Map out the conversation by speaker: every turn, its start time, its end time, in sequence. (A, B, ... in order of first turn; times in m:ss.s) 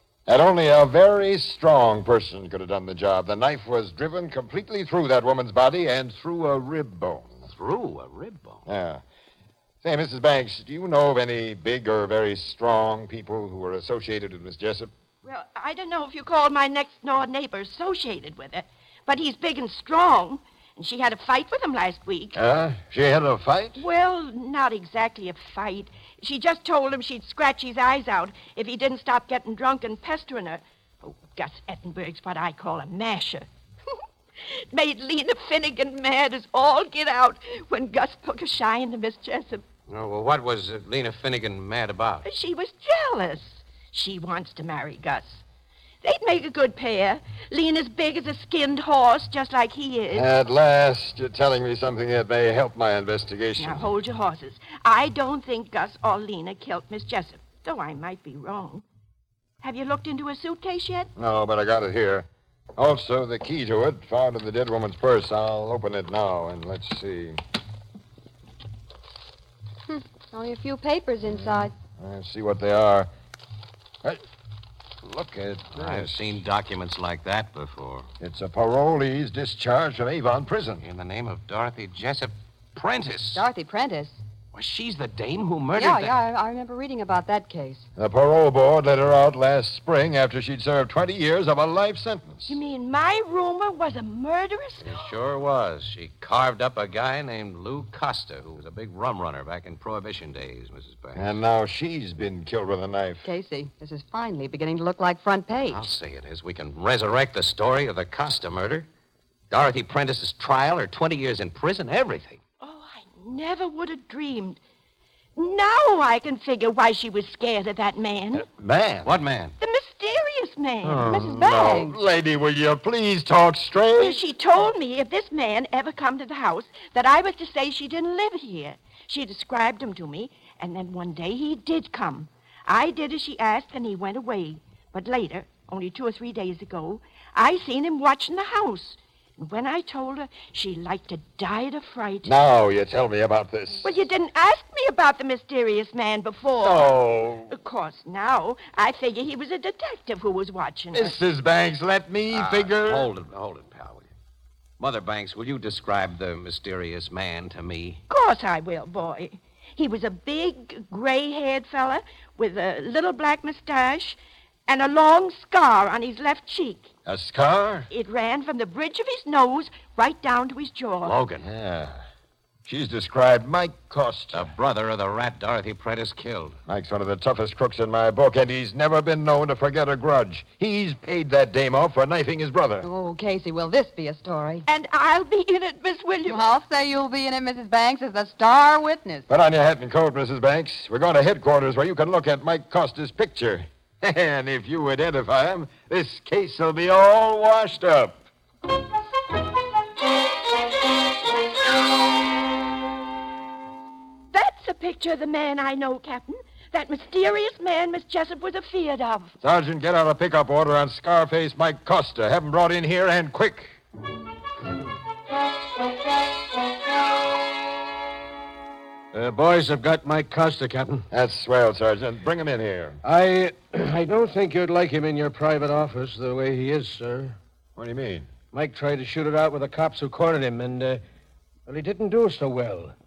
0:00.3-0:07.5 A
0:07.5-0:08.6 B
0:08.6-0:09.0 A
0:09.8-0:14.9 A
0:15.2-0:22.4 C
0:22.3-0:23.8 A
0:23.8-0:34.0 C
0:34.5-0:39.6 C
0:39.9-0:42.2 B
0:42.2-0:45.4 C
0:46.0-0:50.3 C
0:50.1-0:53.9 A
0:53.6-0:58.8 C
0:59.6-1:01.1 C
1:01.2-1:07.4 A
1:09.9-1:11.7 D
1:12.0-1:13.1 A
1:15.0-1:16.4 A
1:15.7-1:18.1 B
1:18.2-1:20.8 A
1:20.8-1:23.4 B
1:23.3-1:24.2 D
1:24.5-1:26.2 B
1:25.7-1:27.9 D
1:28.0-1:32.5 A
1:32.5-1:35.0 C
1:34.8-1:41.4 B
1:41.1-1:43.2 A
1:43.2-1:45.9 D
1:45.7-1:48.9 B
1:49.5-1:52.4 B
1:52.6-1:54.6 C
1:55.4-1:58.4 C
1:58.3-1:59.1 A
1:59.0-1:59.6 B
1:59.6-2:01.4 C
2:00.8-2:04.2 A
2:01.0-2:02.0 D
2:04.0-2:22.3 C
2:22.2-2:23.9 A
2:23.8-2:26.9 C
2:26.6-2:27.5 A
2:27.5-2:31.2 C
2:30.9-2:33.1 A
2:32.3-2:34.1 B
2:34.8-2:38.0 B
2:38.1-2:46.9 C
2:47.0-2:47.9 A
2:47.9-2:51.1 C
2:51.0-2:51.5 B
2:51.4-2:52.0 A
2:52.6-2:54.5 A
2:54.3-2:56.6 B
2:56.7-3:02.9 A
3:02.8-3:04.6 D
3:04.7-3:06.4 C
3:06.3-3:09.2 D
3:09.3-3:18.2 A
3:24.3-3:29.4 C
3:29.4-3:33.8 A
3:39.1-3:41.1 E
3:41.1-3:43.0 A
3:43.0-3:47.4 E
3:47.8-3:48.3 A
3:48.5-3:51.0 E
3:51.7-3:52.9 E